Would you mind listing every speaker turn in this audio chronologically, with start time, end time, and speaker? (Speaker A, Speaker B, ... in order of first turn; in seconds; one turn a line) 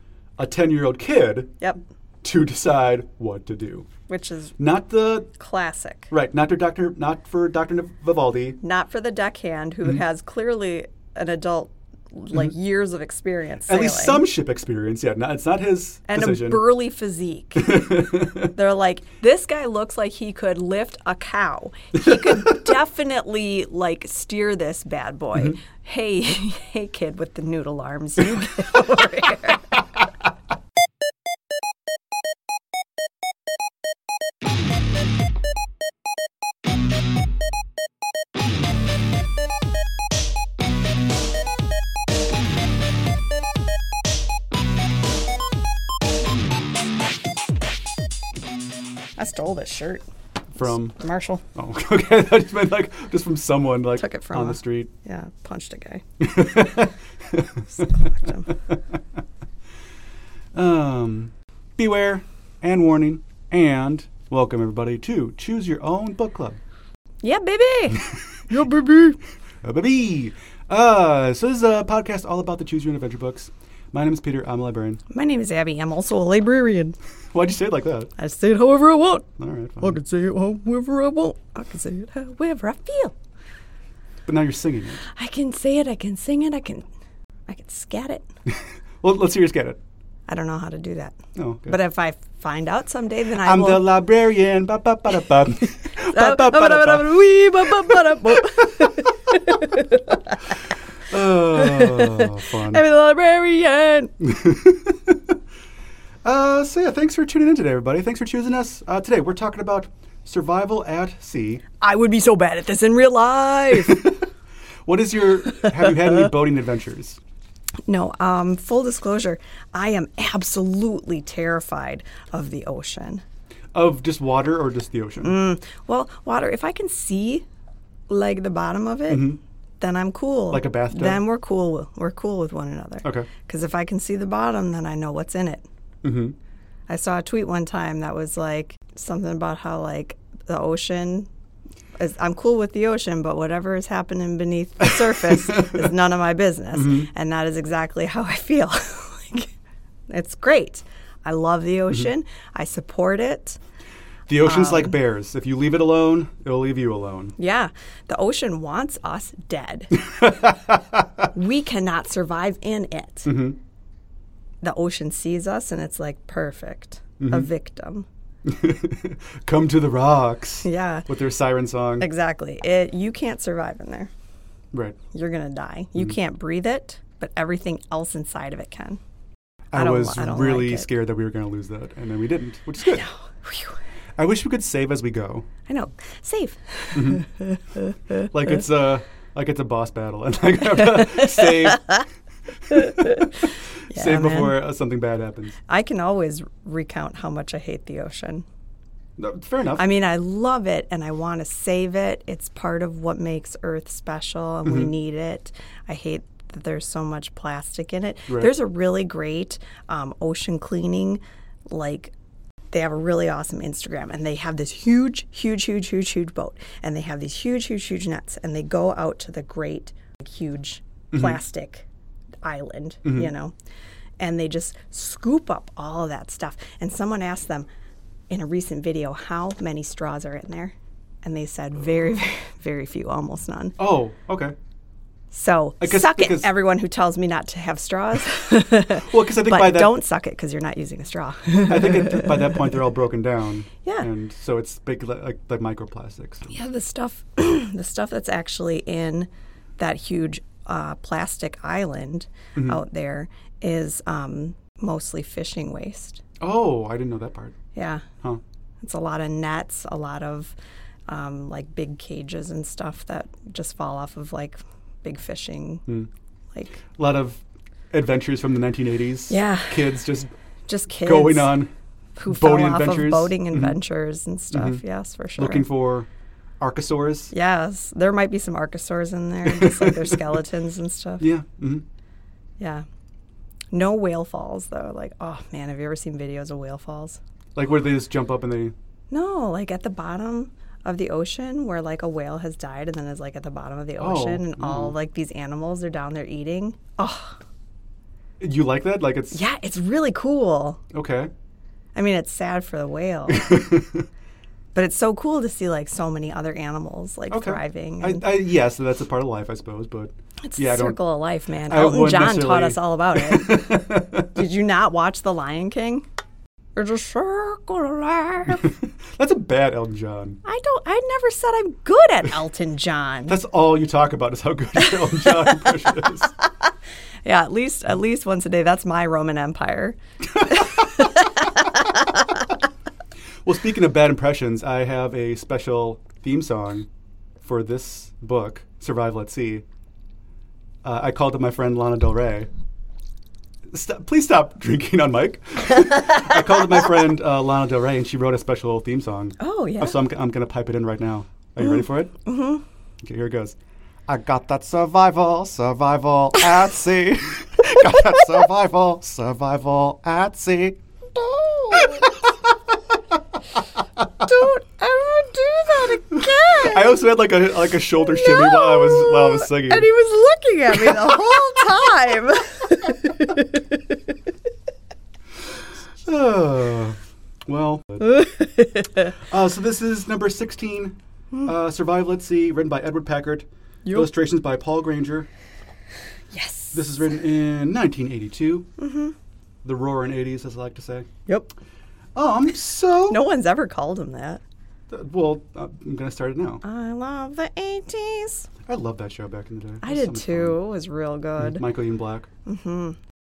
Speaker A: 0.4-1.6
Speaker A: 2.2-3.9
Speaker B: 4.1-4.6
Speaker A: 4.6-5.3
Speaker B: 5.4-6.1
Speaker A: 6.1-8.6
Speaker B: 8.6-14.2
Speaker A: 13.7-16.7
Speaker B: 16.1-29.9
Speaker A: 17.6-18.6
Speaker A: 22.0-22.6
Speaker B: 49.2-50.0
Speaker A: 50.5-51.0
Speaker B: 50.6-51.4
Speaker A: 51.5-54.9
Speaker B: 54.0-56.0
Speaker A: 56.2-58.1
Speaker B: 57.9-58.5
Speaker A: 60.5-66.6
Speaker B: 67.2-69.2
Speaker A: 69.6-75.0
Speaker B: 75.1-77.0
Speaker A: 77.3-78.1
Speaker B: 78.2-79.3
Speaker A: 79.4-80.0
Speaker B: 79.8-83.2
Speaker A: 84.3-85.0
Speaker B: 85.1-86.9
Speaker B: 87.5-88.3
Speaker A: 88.5-89.8
Speaker B: 90.3-93.9
Speaker A: 91.4-91.8
Speaker A: 93.4-98.0
Speaker B: 96.0-100.5
Speaker A: 101.0-102.8
Speaker B: 101.5-104.1
Speaker A: 104.2-105.2
Speaker A: 106.2-111.6
Speaker B: 111.8-114.1
Speaker A: 113.9-114.2
Speaker A: 114.9-117.2
Speaker B: 117.9-123.2
Speaker A: 123.7-125.4
Speaker B: 125.2-127.5
Speaker B: 128.1-129.3
Speaker A: 129.1-129.4
Speaker B: 129.8-135.7
Speaker A: 130.5-131.2
Speaker A: 133.0-133.3
Speaker A: 136.0-136.3
Speaker B: 136.9-141.3
Speaker B: 142.0-149.5
Speaker A: 144.8-145.9
Speaker A: 146.7-147.1
Speaker B: 150.1-153.6
Speaker A: 154.3-157.4
Speaker B: 154.4-154.9
Speaker B: 157.4-159.9
Speaker A: 159.9-161.3
Speaker B: 161.3-163.3
Speaker A: 163.3-163.6
Speaker B: 164.6-168.1
Speaker A: 167.2-167.5
Speaker A: 168.4-172.1
Speaker B: 170.7-171.1
Speaker B: 172.0-174.1
Speaker B: 175.1-179.0
Speaker A: 179.7-183.1
Speaker B: 179.7-180.9
Speaker B: 182.9-183.8
Speaker A: 184.2-185.5
Speaker B: 185.7-188.1
Speaker A: 186.9-187.3
Speaker A: 188.2-192.0
Speaker B: 190.9-192.0
Speaker A: 192.7-195.6
Speaker B: 192.7-193.2
Speaker B: 193.9-194.6
Speaker B: 195.7-198.5
Speaker A: 199.2-199.9
Speaker B: 199.8-212.1
Speaker A: 204.7-204.9
Speaker A: 208.3-208.5
Speaker B: 212.7-221.9
Speaker A: 221.1-221.4
Speaker B: 222.4-223.5
Speaker A: 223.1-223.3
Speaker B: 224.2-227.7
Speaker B: 228.3-233.8
Speaker A: 233.8-234.6
Speaker B: 235.3-242.6
Speaker A: 235.8-236.5
Speaker A: 238.9-239.9
Speaker A: 241.7-246.5
Speaker B: 246.5-256.2
Speaker A: 252.6-252.8
Speaker A: 256.4-257.6
Speaker B: 257.8-258.1
Speaker B: 258.8-260.6
Speaker B: 261.1-265.9
Speaker B: 266.5-266.8
Speaker A: 266.9-270.3
Speaker B: 269.3-270.0
Speaker B: 270.7-271.5
Speaker A: 271.0-271.7
Speaker B: 272.2-275.7
Speaker A: 272.3-273.8
Speaker A: 274.5-274.8
Speaker A: 275.4-276.1
Speaker A: 276.6-277.3
Speaker B: 277.3-281.2
Speaker A: 279.5-280.4
Speaker A: 281.2-281.9
Speaker B: 282.6-282.9
Speaker B: 283.7-287.2
Speaker A: 287.6-288.7
Speaker B: 289.1-297.4
Speaker A: 294.0-295.0
Speaker A: 298.4-299.4
Speaker B: 299.3-300.8
Speaker A: 300.9-301.3
Speaker B: 301.9-303.6
Speaker A: 303.3-304.1
Speaker B: 304.8-308.2
Speaker A: 307.3-311.0
Speaker B: 310.5-316.1
Speaker A: 311.7-314.4
Speaker B: 316.8-318.7
Speaker A: 318.5-320.4
Speaker B: 320.4-323.4
Speaker A: 323.3-326.3
Speaker B: 325.2-325.5
Speaker B: 327.2-332.5
Speaker A: 330.4-330.7
Speaker A: 333.4-336.9
Speaker A: 337.4-339.6
Speaker A: 340.8-342.5
Speaker A: 343.7-352.2
Speaker B: 349.4-350.0
Speaker B: 352.2-352.6
Speaker A: 353.0-353.6
Speaker A: 354.1-360.8
Speaker B: 361.1-362.1
Speaker A: 361.7-362.2
Speaker B: 364.2-367.0
Speaker A: 366.1-369.9
Speaker B: 368.0-373.8
Speaker A: 370.9-371.4
Speaker A: 376.0-378.2
Speaker B: 378.1-379.0
Speaker A: 379.2-385.3
Speaker B: 386.3-386.8
Speaker A: 386.7-388.7
Speaker B: 388.8-389.1
Speaker A: 389.6-391.1
Speaker A: 392.2-393.2
Speaker B: 393.1-394.4
Speaker A: 394.9-396.6
Speaker B: 396.6-398.5
Speaker A: 398.7-400.6
Speaker B: 399.8-401.6
Speaker A: 401.4-402.3
Speaker B: 402.5-403.0